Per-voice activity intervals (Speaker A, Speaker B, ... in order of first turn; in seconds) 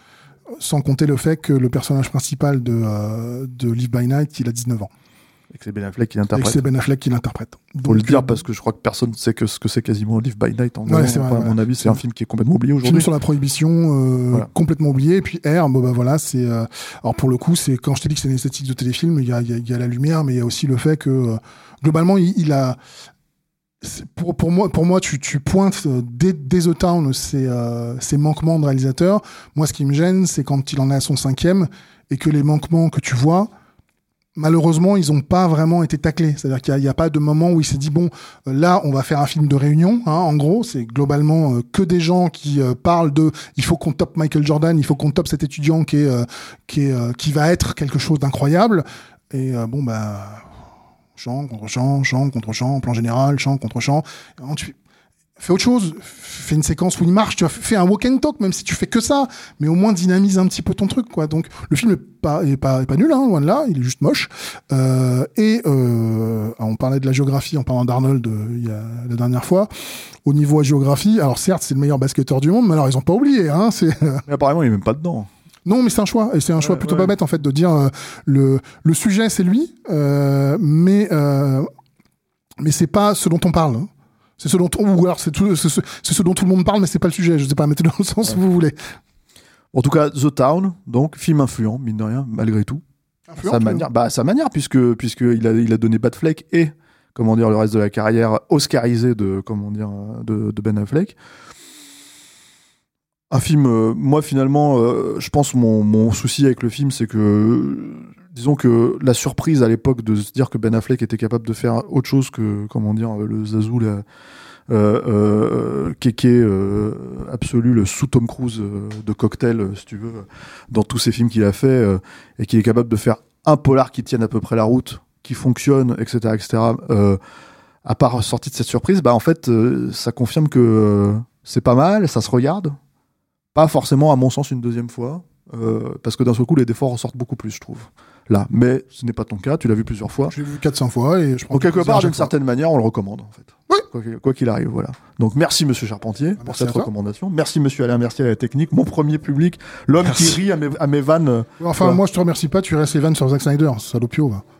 Speaker A: 0.6-4.9, 6.3-8.4, 10.9-12.0, 12.8-22.8, 23.8-33.5, 34.4-50.5, 51.1-54.8, 55.4-69.7, 70.2-74.2, 75.7-81.7, 82.6-88.8, 93.3-93.8, 140.3-142.3, 146.4-146.9, 151.6-154.4
Speaker B: 5.5-6.6, 7.8-13.1, 74.3-75.3, 76.6-77.1, 89.7-92.8, 93.4-101.2, 103.3-114.0, 114.7-127.2, 127.8-132.8, 133.5-140.3, 141.5-152.0